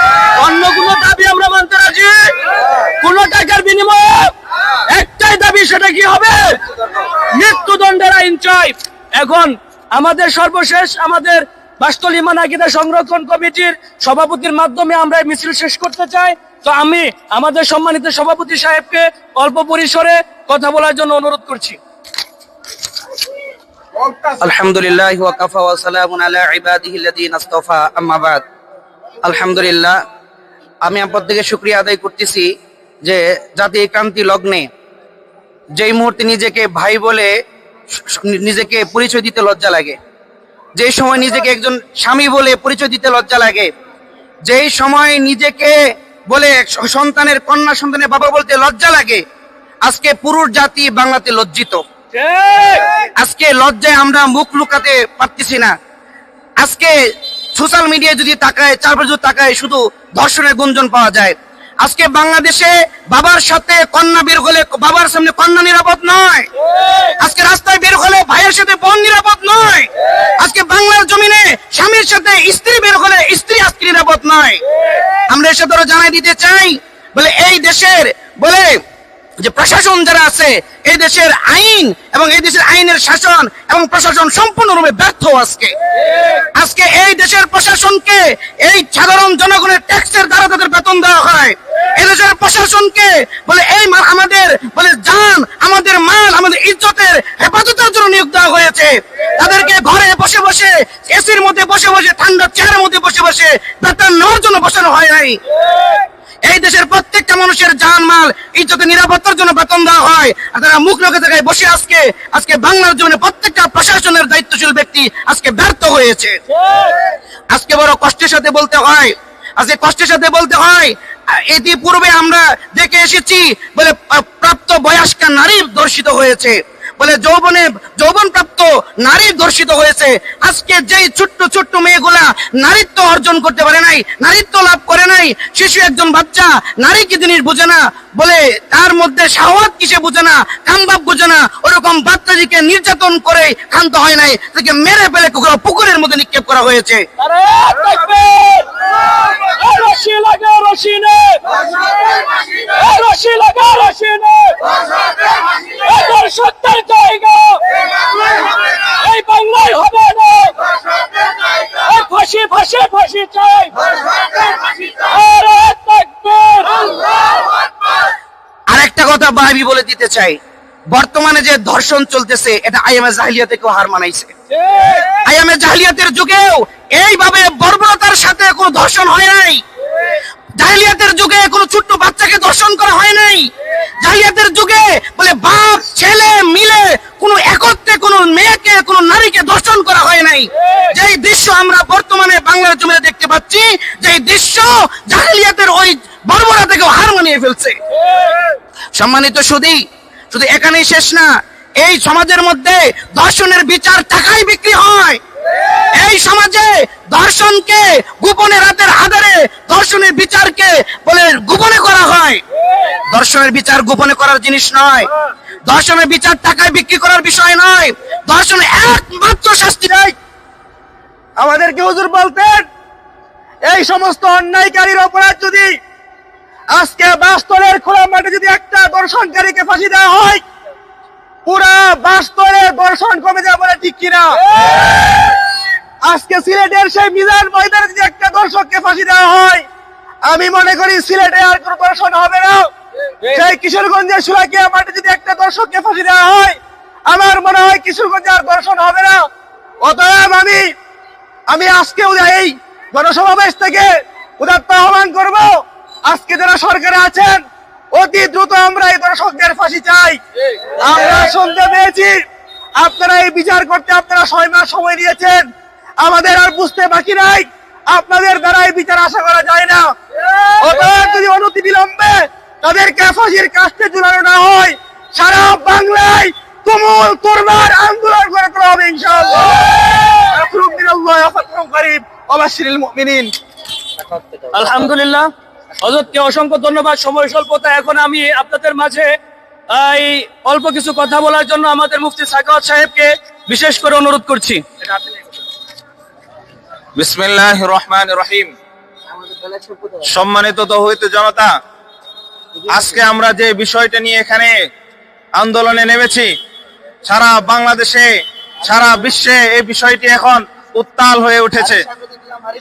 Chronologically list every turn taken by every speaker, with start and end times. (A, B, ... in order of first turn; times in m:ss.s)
0:00.3-0:02.3 A
0:03.0-0:04.3 A
0:04.9-0:06.5 A
0:07.2-0:21.8 A
0:24.3-0:28.4 B
0:29.2-0:30.0 B
0:30.8-0:32.5 B
0:33.0-0:34.7 B
0:35.7-0:37.3 B
0:38.0-0:40.0 B
0:40.8-0:43.7 B
0:44.4-0:45.8 B
0:46.3-0:49.2 B
0:49.8-0:51.8 B
0:52.1-0:52.9 A
0:53.2-0:55.7 B
0:56.6-0:57.0 B
0:57.5-1:06.5 B
1:07.2-1:14.6 B
1:15.3-1:18.8 B
1:19.4-1:25.7 B
1:26.4-1:45.4 B
1:46.4-1:56.4 B
1:56.6-1:57.0 A
1:57.5-2:27.0 B
2:27.2-2:37.6 A
2:38.2-2:40.5 A
2:41.6-2:47.0 A
2:48.7-2:50.4 B
2:50.9-2:54.3 B
2:54.7-2:55.0 A
2:55.1-2:59.6 B
3:00.6-3:17.8 B
3:18.9-3:25.2 B
3:25.9-3:32.4 B
3:33.1-3:35.1 B
3:35.6-3:40.1 B
3:41.4-3:42.6 C
3:43.6-3:45.8 C
3:46.7-3:50.4 C
3:51.4-3:54.4 C
3:54.5-3:55.4 A
3:56.0-3:59.6 C
4:00.2-4:02.7 C
4:03.3-4:09.2 C
4:09.8-4:10.7 C
4:11.5-4:20.2 C
4:20.8-4:22.2 C
4:22.8-4:25.4 C
4:26.0-4:29.9 C
4:30.6-4:43.3 C
4:44.5-4:45.3 A
4:45.8-4:49.1 A
4:49.7-4:55.0 A
4:57.0-4:58.5 D
5:00.0-5:01.5 D
5:02.7-5:04.5 D
5:05.4-5:06.3 D
5:07.0-5:08.1 D
5:08.6-5:11.9 D